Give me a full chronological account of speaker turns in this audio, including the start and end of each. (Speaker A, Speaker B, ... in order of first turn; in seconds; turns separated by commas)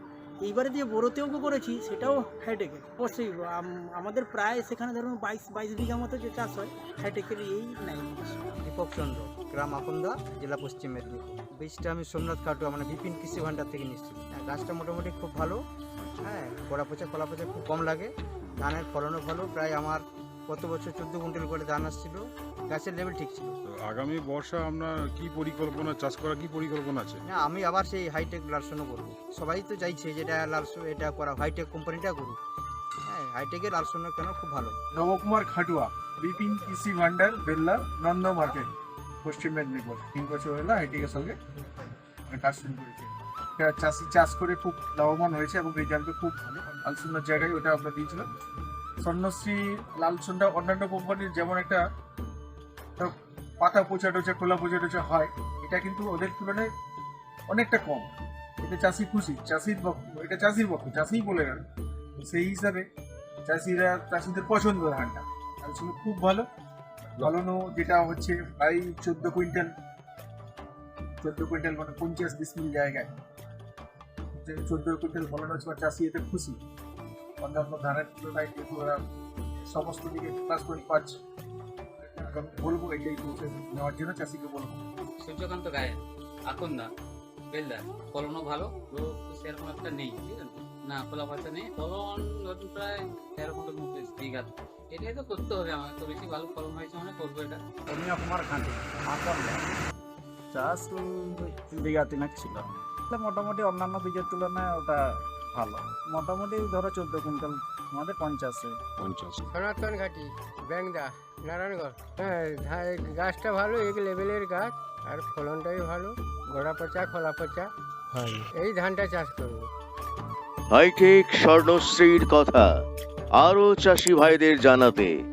Speaker A: 0.4-8.5, Speaker B: 8.6-15.6, Speaker B: 16.2-23.5, Speaker C: 23.6-27.2, Speaker B: 27.3-32.4, Speaker B: 33.1-34.8, Speaker D: 34.9-38.7, Speaker D: 39.2-41.4, Speaker D: 42.3-48.3, Speaker D: 49.0-51.8, Speaker D: 53.0-56.7, Speaker D: 57.5-58.1, Speaker D: 58.6-61.6, Speaker D: 62.2-62.9, Speaker D: 63.4-66.5, Speaker D: 67.2-69.7, Speaker D: 71.2-73.1, Speaker D: 74.3-76.6, Speaker D: 77.4-79.0, Speaker D: 79.7-81.2, Speaker D: 82.1-84.8, Speaker E: 85.2-86.9, Speaker E: 87.5-97.6, Speaker F: 97.9-99.6, Speaker F: 100.5-108.8, Speaker C: 109.0-109.4, Speaker G: 109.4-119.7, Speaker H: 120.7-122.7, Speaker H: 123.4-125.1